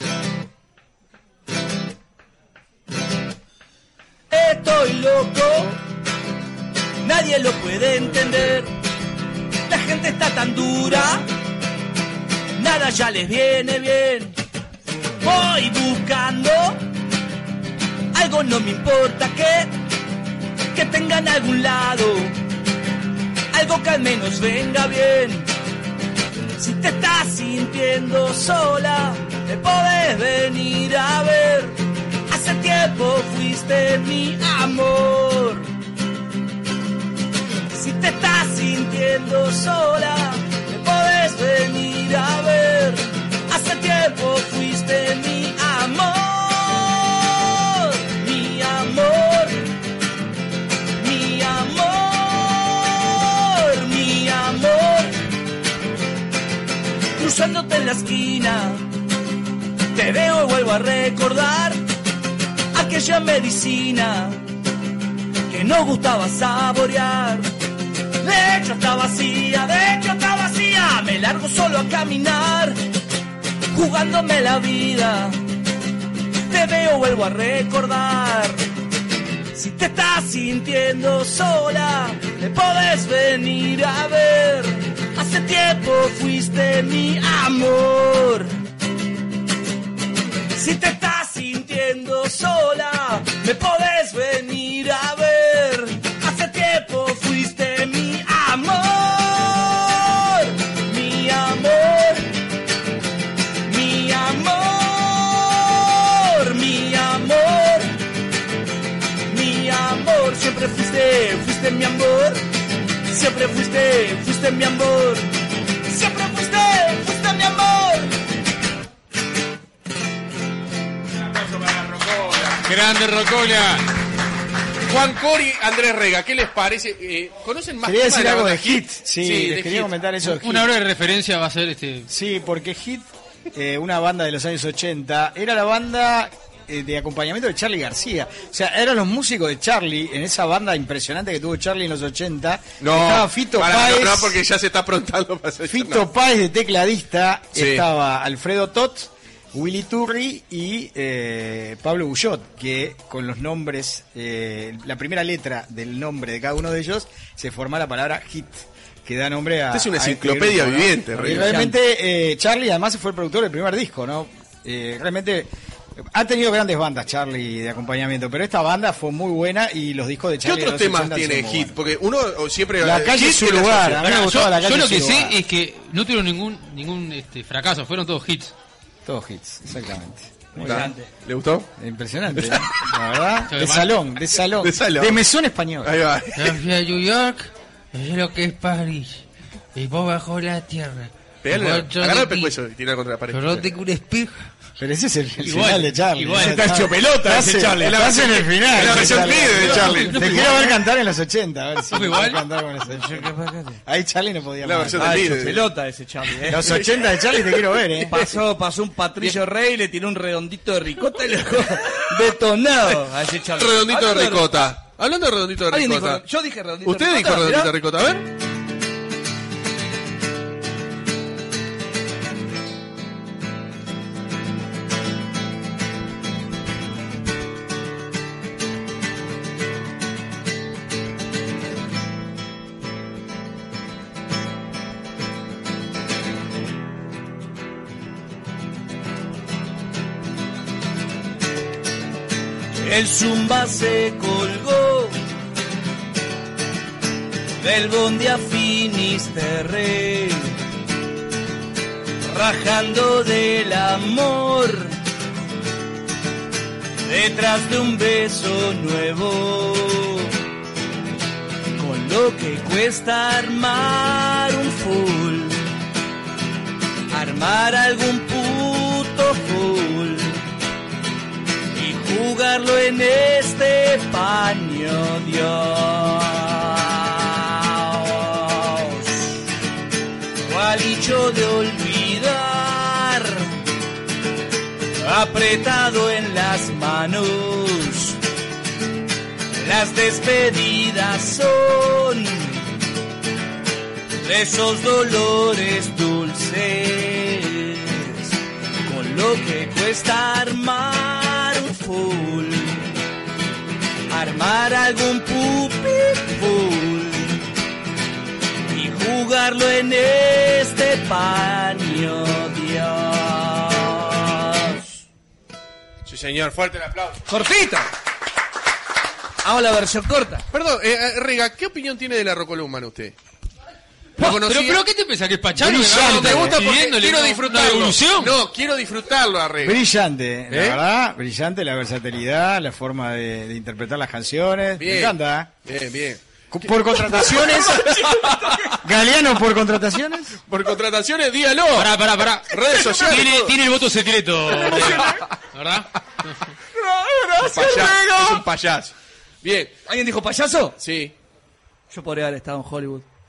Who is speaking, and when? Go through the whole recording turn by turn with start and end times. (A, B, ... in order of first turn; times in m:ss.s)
0:04.3-0:05.8 A
0:07.0-0:08.7 A
0:09.7-0:11.3 A
0:12.6-0:14.4 A
0:15.2-0:16.8 A
0:18.1-0:19.8 A
0:20.7-0:22.4 A
0:23.5-0:25.5 A
0:26.6-0:35.7 A
0:37.7-0:49.7 A
0:51.0-0:55.2 A
0:57.2-0:58.9 A
0:59.9-1:01.8 A
1:02.7-1:04.4 A
1:05.5-1:07.5 A
1:08.2-1:12.8 A
1:13.7-1:15.4 A
1:16.5-1:18.6 A
1:19.5-1:28.6 A
1:30.5-1:42.3 A
1:43.6-1:48.0 A
1:49.3-1:52.4 A
1:53.1-1:55.3 A
1:55.8-1:58.2 A
2:01.3-2:02.7 B
2:02.6-2:03.8 C
2:04.8-2:09.9 B
2:07.8-2:10.7 D
2:10.2-2:12.1 C
2:12.1-2:24.4 D
2:22.8-2:26.0 B
2:25.7-2:45.5 D
2:27.6-2:27.8 B
2:39.7-2:41.6 B
2:41.2-2:41.8 A
2:46.1-2:51.8 D
2:50.4-2:54.1 B
2:52.8-2:55.4 D
2:54.0-2:58.5 C
2:59.1-3:00.9 D
3:00.6-3:01.1 A
3:00.6-3:01.7 B
3:01.8-3:06.0 D
3:02.3-3:02.8 B
3:03.5-3:03.9 C
3:04.6-3:05.2 B
3:05.8-3:06.6 B
3:06.3-3:09.2 C
3:09.8-3:12.5 C
3:11.4-3:13.7 B
3:13.3-3:14.3 C
3:14.8-3:23.3 D
3:15.4-3:16.9 C
3:16.3-3:20.7 A
3:17.8-3:20.5 B
3:19.7-3:20.7 C
3:21.9-3:22.4 C
3:22.9-3:23.8 A
3:23.8-3:25.6 D
3:24.6-3:25.7 B
3:25.0-3:26.8 A
3:26.5-3:28.2 D
3:26.5-3:28.3 B
3:28.1-3:34.7 A
3:33.6-3:36.2 B
3:35.7-3:37.7 A
3:36.8-3:38.3 B
4:02.8-4:05.2 A
4:07.6-4:10.6 A
4:12.2-4:15.0 A
4:17.0-4:20.4 A
4:21.8-4:25.7 A
4:27.1-4:30.5 A
4:31.7-4:39.4 A
4:40.4-4:43.6 A
4:45.0-4:48.2 A
4:49.6-4:52.6 A
4:54.2-5:02.9 A
5:04.1-5:07.4 A
5:08.7-5:14.9 A
5:16.0-5:17.2 B
5:17.3-5:17.9 A
5:19.4-5:20.5 A
5:20.5-5:23.2 B
5:24.2-5:24.8 B
5:24.2-5:28.4 C
5:25.6-5:26.6 D
5:25.6-5:29.8 B
5:29.6-5:35.5 D
5:30.5-5:30.8 B
5:34.8-5:38.8 B
5:36.5-5:38.1 D
5:38.2-5:38.6 A
5:38.8-5:40.4 D
5:40.5-5:42.0 B
5:41.8-5:46.4 C
5:42.5-5:43.5 B
5:44.6-5:45.2 A
5:44.9-5:45.2 B
5:46.7-5:48.4 A
5:47.4-5:49.7 B
5:49.9-5:50.8 A
5:50.8-5:51.1 B
5:51.9-5:53.0 A